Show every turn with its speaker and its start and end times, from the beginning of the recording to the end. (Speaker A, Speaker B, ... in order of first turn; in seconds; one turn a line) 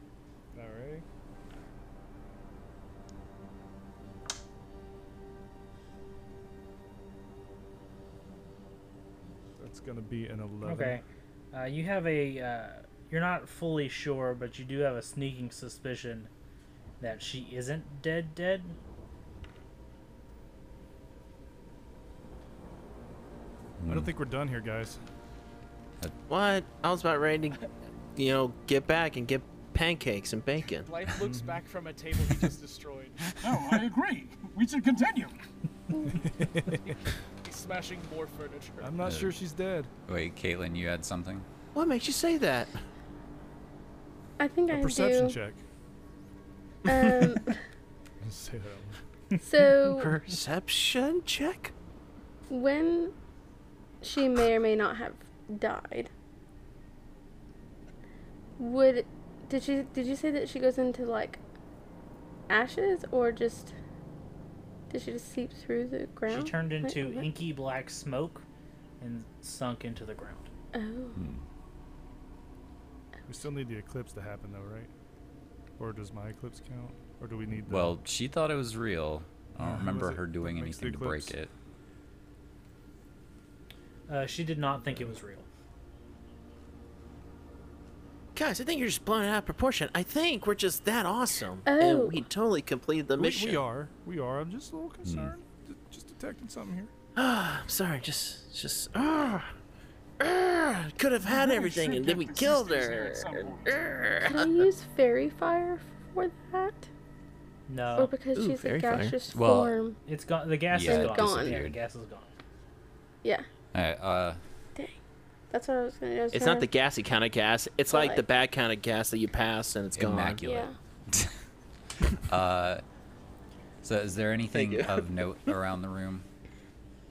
Speaker A: 0.5-1.1
Speaker A: 9.6-11.0
Speaker B: 10.6-16.3
Speaker B: 17.0-18.8
Speaker C: 23.8-24.1
Speaker A: 23.9-25.0
Speaker D: 26.3-27.6
Speaker D: 28.1-30.9
Speaker E: 30.8-33.2
Speaker A: 31.2-31.6
Speaker F: 33.4-35.4
Speaker A: 36.2-37.0
Speaker E: 36.7-39.0
Speaker A: 38.8-39.9
Speaker C: 39.0-39.4
Speaker C: 40.1-41.5
Speaker D: 41.7-42.8
Speaker G: 44.4-45.4
Speaker A: 44.7-45.6
Speaker G: 46.9-47.6
Speaker D: 46.9-47.3
Speaker A: 48.2-49.0
Speaker G: 49.4-50.1
Speaker D: 49.9-51.7
Speaker G: 52.5-53.1
Speaker G: 54.0-56.1
Speaker G: 58.6-61.4
Speaker G: 62.5-63.7
Speaker G: 64.9-67.3
Speaker B: 66.3-68.4
Speaker B: 69.0-70.5
Speaker G: 70.7-71.2
Speaker C: 71.1-71.4
Speaker A: 73.3-74.9
Speaker A: 75.8-78.0
Speaker C: 77.7-81.5
Speaker A: 79.6-81.3
Speaker B: 84.1-85.5
Speaker D: 88.3-93.7
Speaker G: 91.7-92.3
Speaker A: 93.2-96.9
Speaker C: 95.0-95.3
Speaker D: 97.2-99.5
Speaker D: 100.2-104.6
Speaker F: 101.2-103.8
Speaker G: 104.2-106.9
Speaker B: 107.7-108.1
Speaker G: 107.9-110.0
Speaker D: 108.3-109.2
Speaker C: 109.3-109.8
Speaker B: 110.0-112.3
Speaker C: 110.7-111.8
Speaker G: 110.8-111.6
Speaker C: 113.7-114.4
Speaker G: 115.5-116.7
Speaker D: 116.3-120.4
Speaker G: 117.9-118.2
Speaker C: 119.9-121.4
Speaker G: 120.4-120.8
Speaker C: 122.2-122.8
Speaker C: 123.8-126.3
Speaker D: 124.5-125.0